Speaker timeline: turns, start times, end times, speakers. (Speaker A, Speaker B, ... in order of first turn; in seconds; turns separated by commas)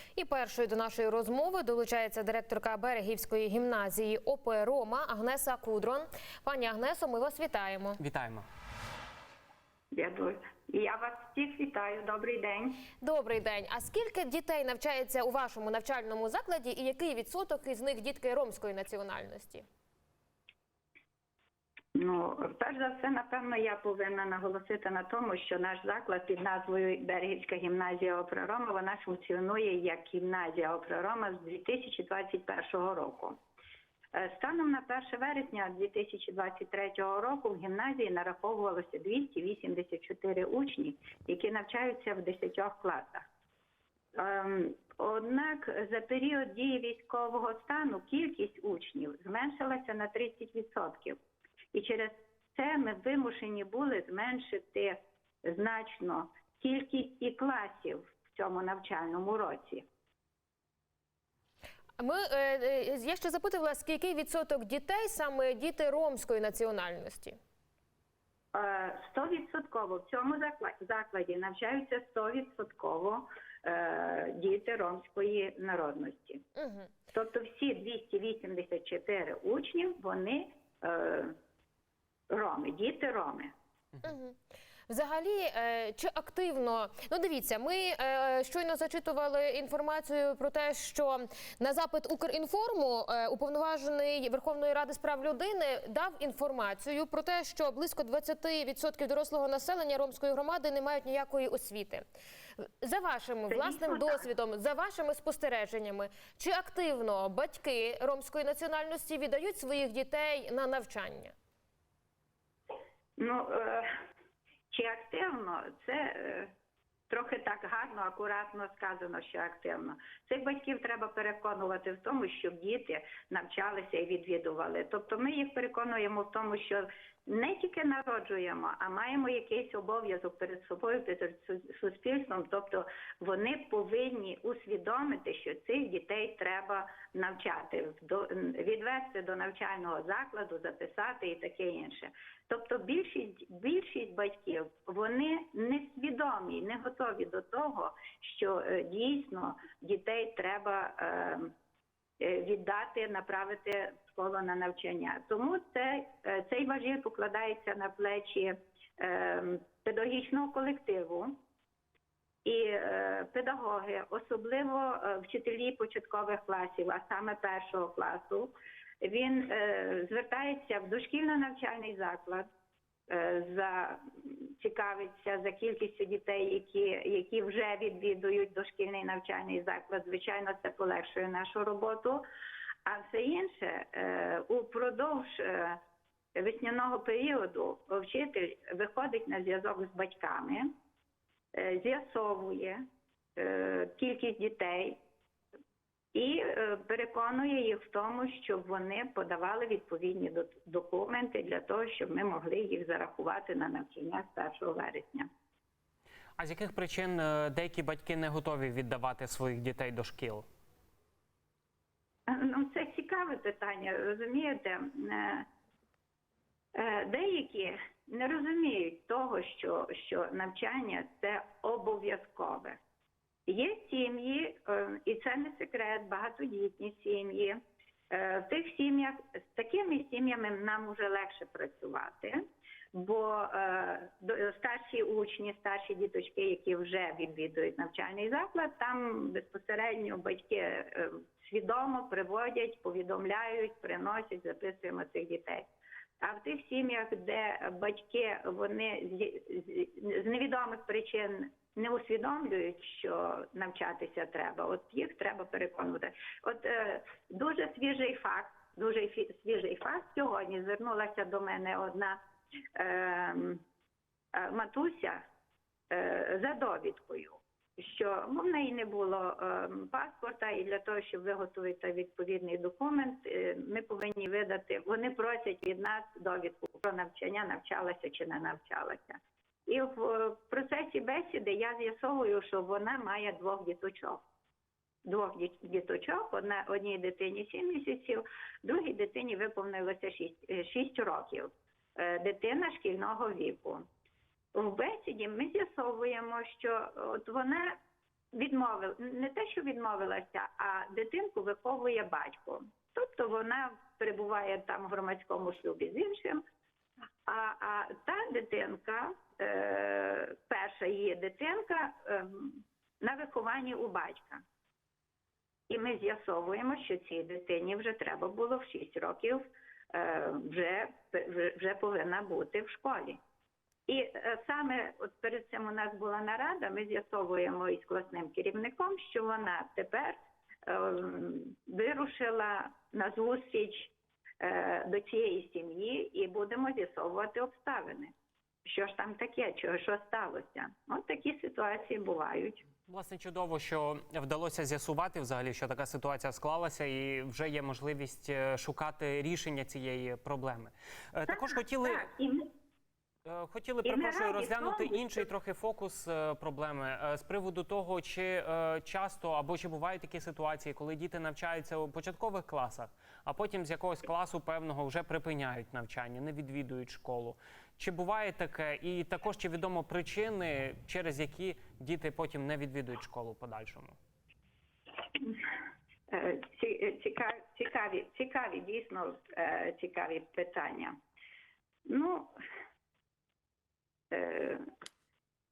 Speaker A: 0.2-8.0, Speaker B: 8.0-8.4, Speaker C: 9.9-12.8, Speaker A: 13.0-19.6, Speaker C: 21.9-33.4, Speaker C: 34.1-43.2, Speaker C: 44.1-51.2, Speaker C: 51.7-59.9, Speaker A: 62.0-67.4, Speaker C: 68.5-76.4, Speaker A: 76.6-76.9, Speaker C: 77.1-81.4, Speaker C: 82.3-83.5, Speaker A: 84.0-84.4, Speaker A: 84.9-102.0, Speaker A: 102.6-111.3, Speaker C: 103.5-104.2, Speaker C: 113.2-113.9, Speaker C: 114.7-116.5, Speaker C: 117.1-151.5, Speaker C: 152.2-161.4, Speaker C: 162.4-168.5, Speaker C: 169.0-172.5, Speaker C: 173.1-182.2, Speaker C: 182.9-185.8, Speaker C: 186.3-190.7, Speaker C: 191.5-192.8, Speaker C: 193.4-195.0, Speaker C: 196.1-205.3, Speaker B: 206.4-210.5, Speaker C: 212.3-215.5, Speaker C: 216.7-222.8, Speaker C: 223.5-232.4, Speaker C: 232.9-245.7, Speaker C: 246.2-262.2, Speaker C: 262.8-263.6, Speaker C: 264.3-265.2, Speaker C: 265.9-284.2, Speaker C: 285.0-293.9, Speaker C: 294.5-297.8, Speaker C: 298.3-306.4, Speaker C: 307.3-314.4, Speaker C: 315.7-323.2, Speaker C: 323.9-338.1, Speaker C: 338.6-342.6, Speaker B: 342.9-352.0, Speaker C: 351.3-352.5, Speaker B: 353.2-374.0, Speaker C: 353.8-355.2, Speaker C: 376.1-380.9, Speaker C: 381.9-382.3, Speaker C: 384.1-384.6